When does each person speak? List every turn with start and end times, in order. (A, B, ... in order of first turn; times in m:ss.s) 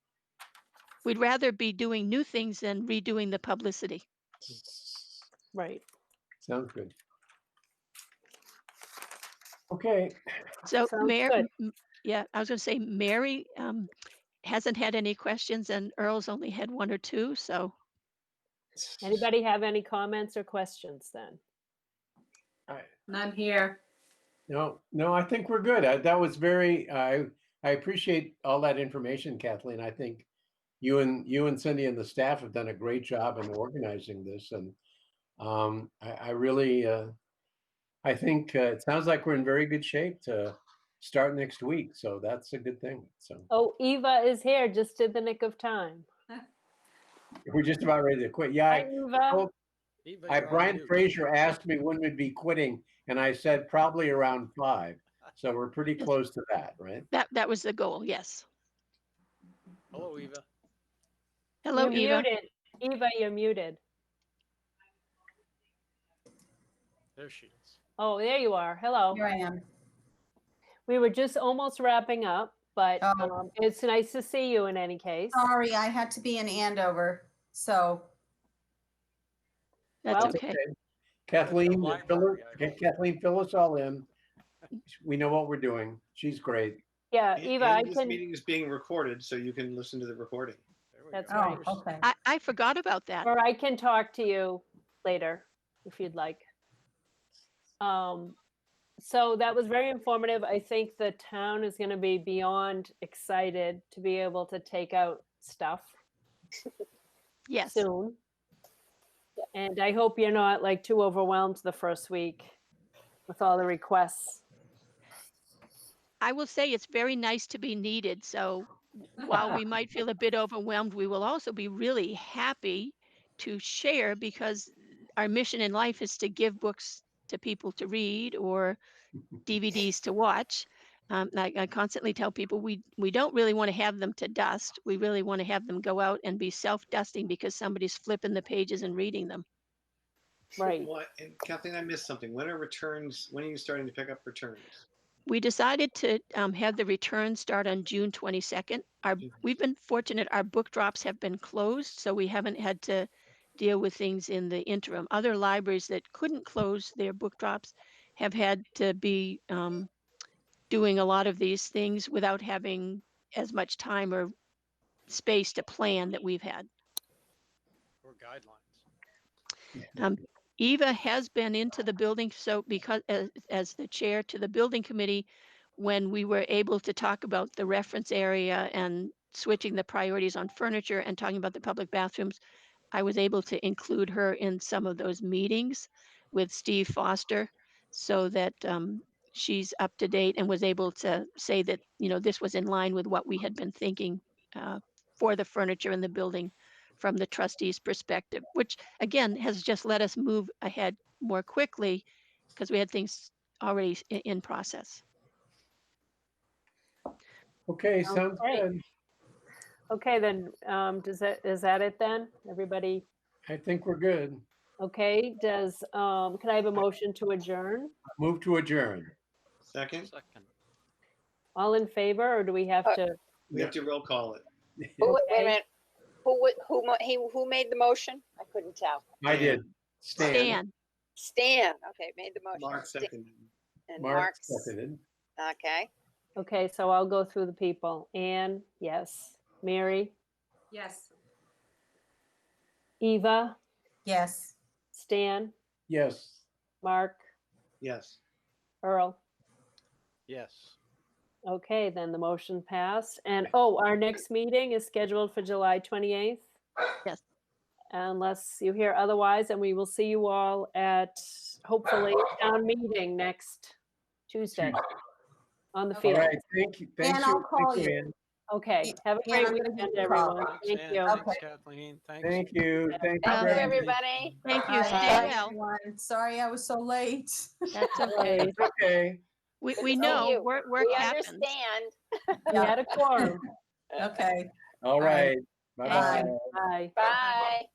0:01.0-0:04.0 A
0:04.4-0:05.3 B
0:05.5-0:05.8 C
0:06.4-0:06.9 B
0:09.7-0:10.2 B
0:10.6-0:13.9 A
0:10.8-0:11.5 C
0:14.4-0:17.8 A
0:19.0-0:21.4 C
0:24.5-0:30.3 B
0:30.8-0:34.8 B
0:35.4-0:37.2 B
0:38.0-0:43.5 B
0:43.5-0:46.1 C
0:47.5-0:49.5 B
0:48.7-0:49.5 C
0:50.0-0:51.0 D
0:50.3-0:57.1 B
0:57.1-0:58.5 A
0:59.9-1:00.4 D
1:01.6-1:02.3 A
1:01.7-1:03.8 C
1:07.2-1:07.8 D
1:08.0-1:09.3 C
1:09.1-1:09.6 E
1:10.9-1:15.4 C
1:13.0-1:13.4 E
1:15.3-1:18.1 E
1:20.0-1:20.6 A
1:20.1-1:20.8 B
1:21.3-1:24.1 B
1:21.4-1:22.8 D
1:24.9-1:26.8 B
1:27.1-1:28.2 C
1:27.4-1:30.6 F
1:30.9-1:31.9 D
1:31.1-1:31.7 C
1:31.3-1:32.0 E
1:32.0-1:33.3 A
1:33.2-1:36.4 C
1:37.8-1:38.4 C
1:39.0-1:45.9 C
1:47.5-1:47.9 A
1:47.7-1:48.2 C
1:49.6-1:52.5 C
1:53.3-1:54.4 C
1:56.2-2:08.8 A
2:09.4-2:19.4 A
2:20.6-2:20.9 C
2:20.6-2:24.8 F
2:25.3-2:39.9 A
2:40.7-2:44.3 A
2:45.1-2:46.7 A
2:48.0-2:48.8 D
2:50.0-3:02.4 A
3:02.9-3:25.0 A
3:27.7-3:28.8 B
3:28.0-3:28.6 C
3:29.9-3:33.0 C
3:33.4-3:34.4 B
3:34.8-3:38.0 C
3:38.1-3:39.1 B
3:39.7-3:40.1 F
3:40.0-3:40.5 D
3:41.6-3:43.2 C
3:43.5-3:44.4 F
3:44.8-3:45.2 B
3:45.0-3:45.7 G
3:45.1-3:45.6 C
3:46.2-3:49.1 G
3:49.2-3:50.6 B
3:49.2-3:49.6 F
3:50.2-3:50.7 A
3:51.2-3:53.1 G
3:52.5-3:53.5 F
3:53.9-3:54.7 G
3:54.0-3:55.0 B
3:55.4-3:55.9 G
3:56.4-4:00.1 C
4:03.0-4:03.6 C
4:04.1-4:04.6 E
4:04.9-4:05.5 C
4:05.9-4:06.5 B
4:06.8-4:07.2 C
4:07.8-4:08.2 F
4:08.8-4:09.2 C
4:10.3-4:10.8 D
4:11.5-4:16.5 C
4:17.9-4:23.7 C
4:24.3-4:24.8 C
4:25.7-4:26.4 C
4:26.0-4:28.1 B
4:27.0-4:28.0 E
4:28.5-4:31.1 C
4:28.8-4:30.5 E
4:30.4-4:32.6 D
4:31.0-4:31.4 E
4:32.2-4:34.0 B
4:33.2-4:35.3 G
4:33.3-4:33.8 A
4:34.4-4:35.6 A
4:34.7-4:38.1 E
4:37.7-4:38.5 A
4:38.0-4:39.2 B
4:38.1-4:38.6 C
4:39.6-4:41.5 A
4:39.8-4:43.0 G
4:42.5-4:43.4 C
4:42.5-4:43.4 E
4:44.0-4:44.5 E
4:44.8-4:46.5 B
4:45.0-4:45.3 E
4:45.8-4:46.3 A
4:45.9-4:46.4 E
4:46.4-4:47.0 C
4:47.0-4:47.7 G